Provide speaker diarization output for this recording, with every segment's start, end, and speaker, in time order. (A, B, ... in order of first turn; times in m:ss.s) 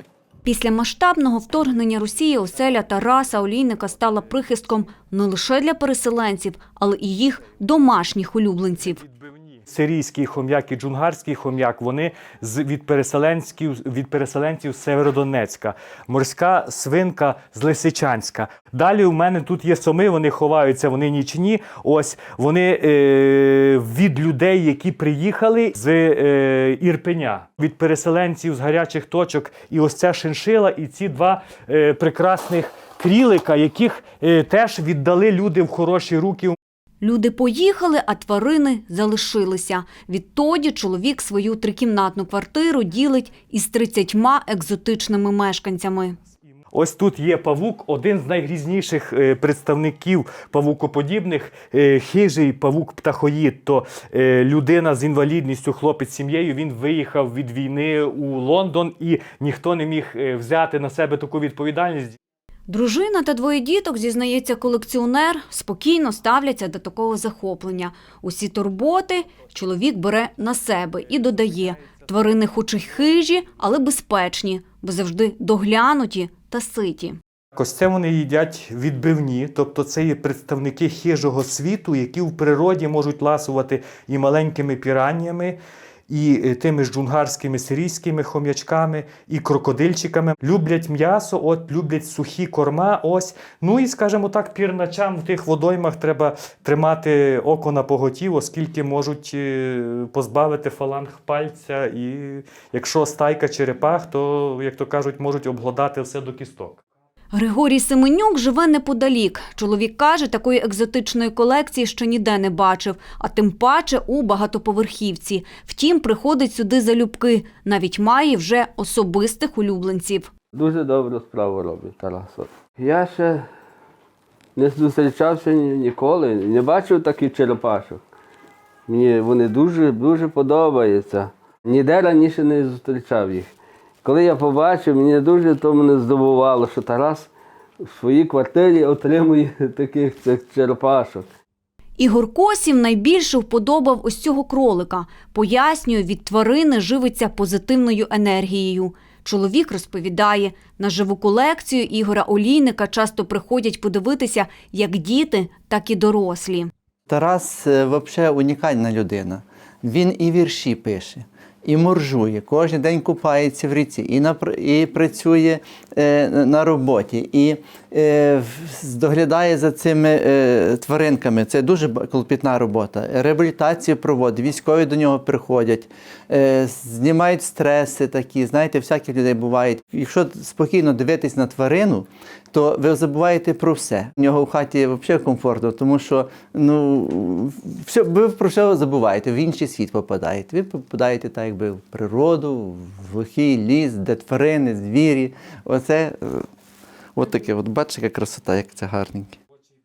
0:00.4-0:09.0 A
0:09.0-0:36.6 B
0:37.0-0:46.2 A
0:46.7-1:02.2 B
1:02.7-1:17.2 A
1:17.6-1:46.8 B
1:47.3-2:00.3 A
2:00.5-2:03.5 C
2:04.6-2:08.0 C
2:08.9-2:13.5 C
2:14.0-2:21.3 C
2:22.0-2:36.7 A
2:37.1-3:16.5 D
3:17.2-3:19.4 D